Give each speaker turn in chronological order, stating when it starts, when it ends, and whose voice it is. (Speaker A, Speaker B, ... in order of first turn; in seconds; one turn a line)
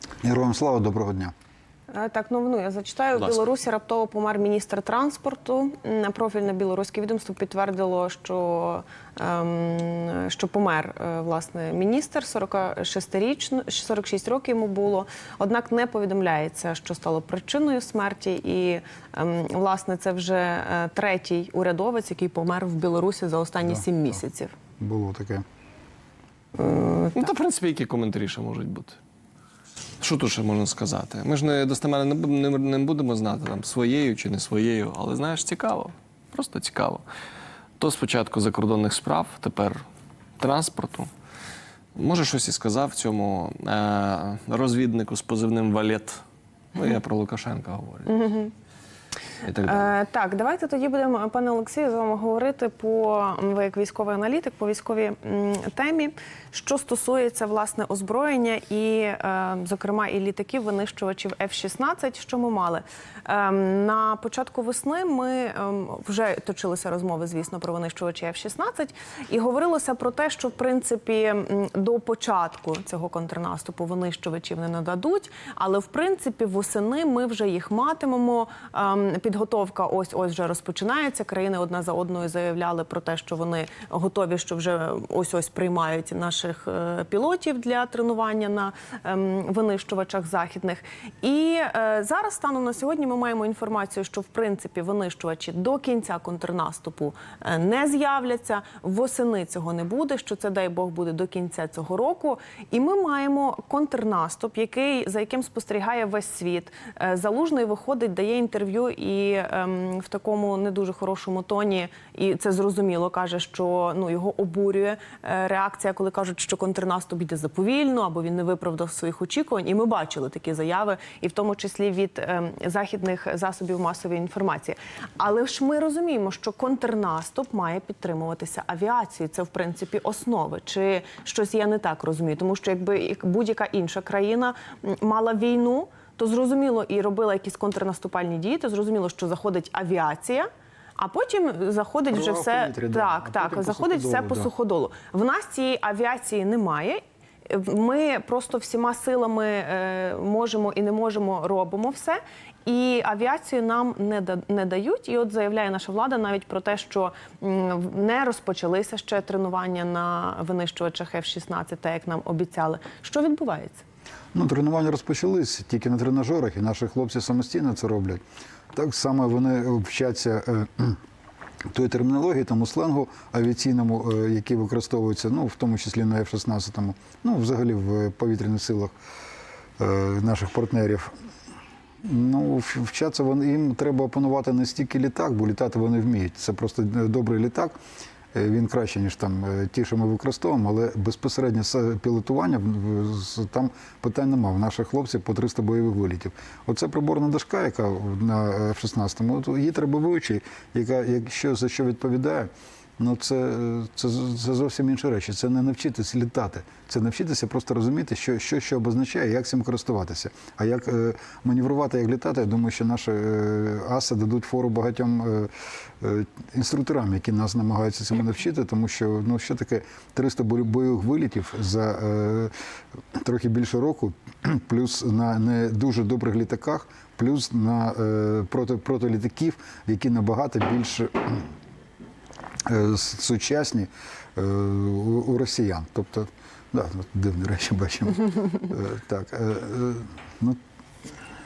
Speaker A: 0.2-1.3
Speaker B: 1.9-24.6
Speaker C: 3.2-3.4
Speaker A: 24.8-25.4
Speaker B: 26.6-27.2
Speaker C: 27.1-29.0
Speaker C: 30.0-37.0
Speaker C: 37.8-39.8
Speaker C: 40.4-41.1
Speaker C: 42.0-46.2
Speaker C: 46.7-48.2
Speaker B: 48.1-48.5
Speaker C: 49.4-50.0
Speaker B: 49.6-163.8
Speaker A: 142.1-144.5
Speaker A: 164.3-168.2
Speaker A: 168.7-171.0
Speaker A: 171.7-178.9
Speaker A: 179.8-181.1
Speaker A: 182.0-187.8
Speaker A: 188.3-222.5
Speaker A: 223.2-231.5
Speaker A: 232.7-240.6